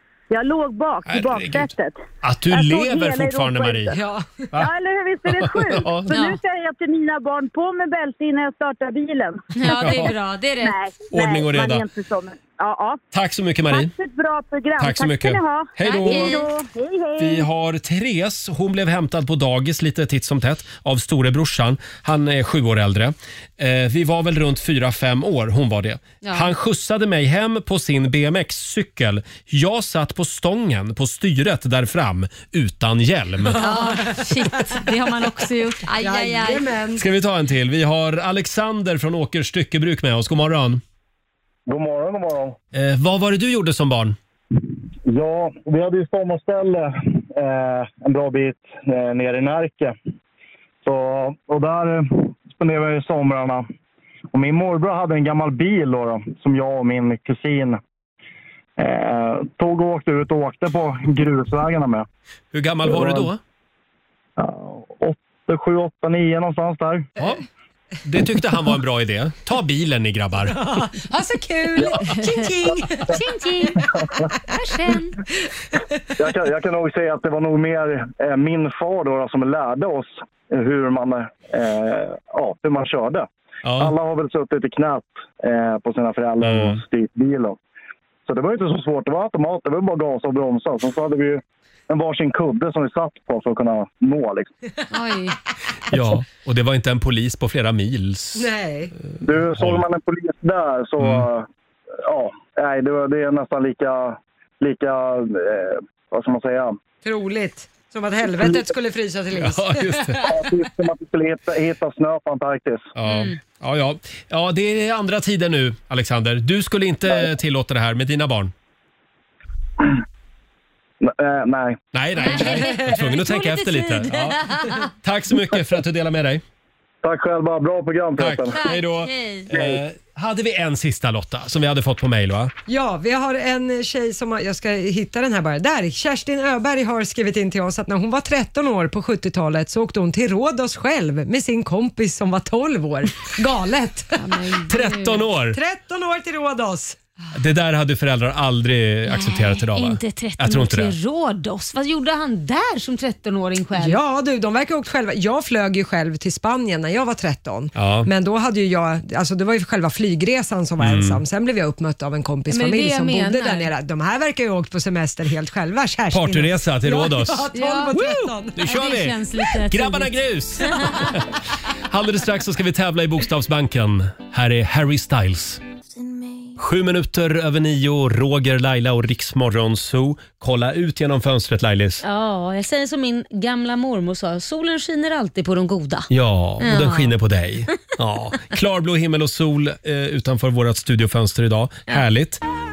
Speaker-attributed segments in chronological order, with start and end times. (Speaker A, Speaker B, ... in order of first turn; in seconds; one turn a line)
Speaker A: 0.3-2.0
Speaker B: 1.1-1.7
Speaker B: 2.2-4.0
Speaker A: 2.5-4.0
Speaker C: 3.9-4.5
Speaker A: 4.6-10.0
Speaker B: 5.3-6.2
Speaker D: 6.1-6.4
Speaker D: 9.6-10.8
Speaker B: 9.8-10.1
Speaker A: 10.6-13.0
Speaker B: 11.1-11.9
Speaker B: 13.1-13.9
Speaker A: 13.7-17.5
Speaker B: 14.8-16.5
Speaker D: 15.8-16.5
Speaker B: 17.2-34.0
Speaker D: 26.2-26.5
Speaker C: 33.5-34.1
Speaker D: 33.6-36.7
Speaker C: 36.0-37.0
Speaker B: 37.0-40.8
Speaker E: 41.7-42.6
Speaker B: 42.7-44.2
Speaker E: 45.1-50.0
Speaker E: 50.8-53.7
Speaker E: 54.3-57.8
Speaker E: 58.8-62.1
Speaker B: 62.5-63.4
Speaker E: 62.8-63.3
Speaker E: 64.4-67.1
Speaker B: 67.2-67.4
Speaker B: 68.0-70.5
Speaker C: 70.5-73.2
Speaker D: 72.0-72.4
Speaker D: 73.1-73.8
Speaker D: 74.5-75.2
Speaker E: 76.2-87.6
Speaker B: 83.6-84.0
Speaker B: 86.4-86.8
Speaker E: 88.3-94.5
Speaker D: 94.9-95.4
Speaker B: 95.9-98.5
Speaker C: 98.4-98.9
Speaker E: 99.2-101.5
Speaker B: 99.4-99.8
Speaker B: 101.0-101.3
Speaker E: 102.0-106.8
Speaker C: 107.0-110.5
Speaker B: 109.4-110.2
Speaker E: 110.2-112.9
Speaker B: 113.0-118.5
Speaker D: 113.0-113.4
Speaker E: 121.0-121.8
Speaker B: 121.9-126.4
Speaker D: 122.2-124.9
Speaker E: 127.0-128.5
Speaker B: 128.2-132.5
Speaker D: 128.5-129.5
Speaker E: 129.5-129.8
Speaker C: 132.7-144.2
Speaker D: 144.2-145.2
Speaker B: 144.7-145.6
Speaker C: 145.5-147.0
Speaker B: 147.3-150.9
Speaker D: 149.1-154.0
Speaker C: 153.8-168.6
Speaker B: 157.8-158.1
Speaker B: 160.8-161.2
Speaker D: 162.5-163.7
Speaker B: 166.1-171.3
Speaker D: 167.5-167.9
Speaker D: 168.6-171.1
Speaker B: 171.9-175.6
Speaker B: 176.6-182.0
Speaker D: 182.0-186.1
Speaker B: 186.1-192.4
Speaker D: 186.6-187.1